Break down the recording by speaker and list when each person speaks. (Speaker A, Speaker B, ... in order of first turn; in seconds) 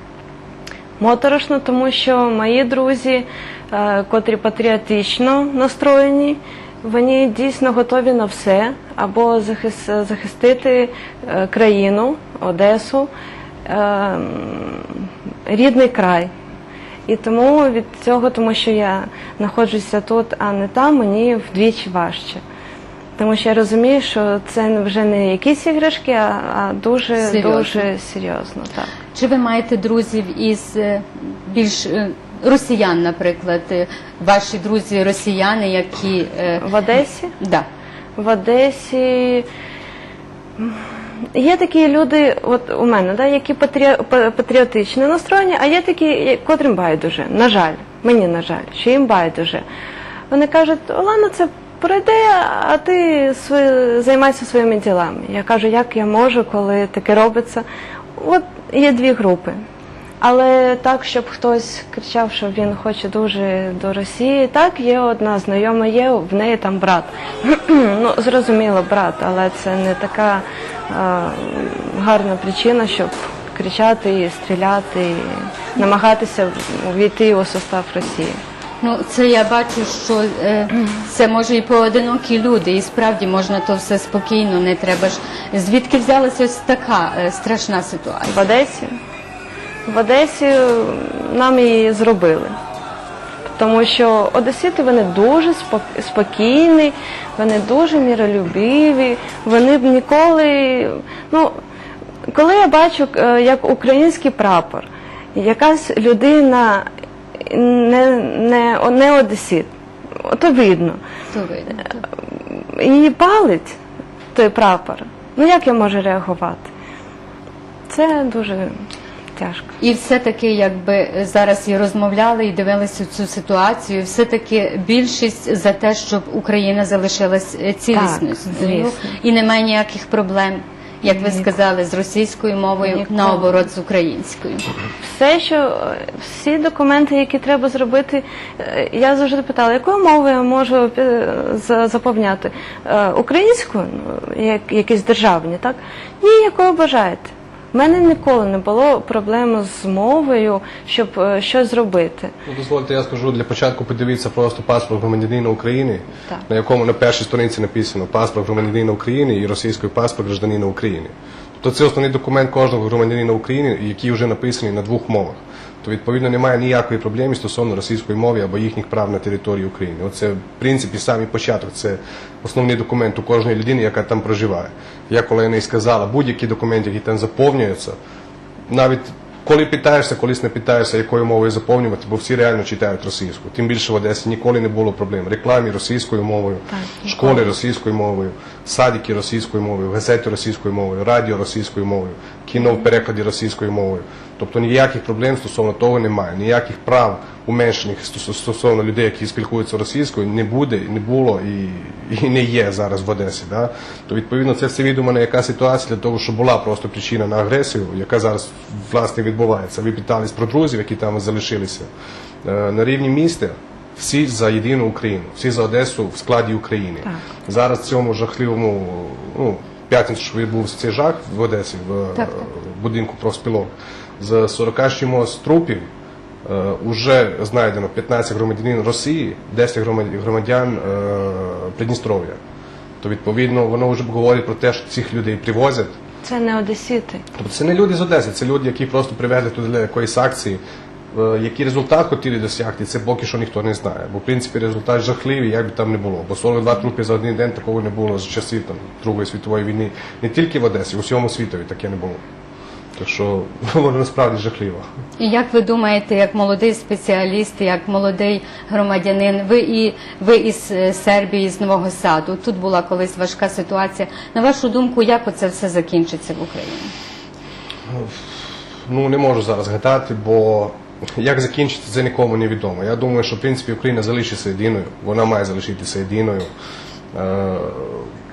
Speaker A: 1.0-13.1, 13.7-16.3, 17.1-22.4, 23.2-28.9, 36.6-37.3, 38.2-39.5, 40.6-49.6, 50.3-59.6, 60.2-78.4, 88.3-89.0, 89.9-92.5, 93.6-101.5, 102.3-106.9, 107.5-109.7, 110.2-111.0, 112.5-113.8, 114.3-116.7, 117.9-118.8, 119.4-119.7, 127.9-129.2, 131.1-131.4, 132.8-133.5, 135.0-152.3, 186.7-187.4, 236.2-237.2
Speaker B: 27.2-27.8, 29.1-36.7, 37.4-37.7, 78.8-88.5, 111.3-112.0, 119.8-134.7, 222.2-222.4, 255.2-266.9
Speaker C: 152.4-178.0, 178.7-211.9, 212.4-225.9, 226.4-232.4, 233.0-236.0, 237.4-240.6, 241.1-252.2, 253.0-254.9, 267.9-268.2, 268.9-276.5, 277.1-278.1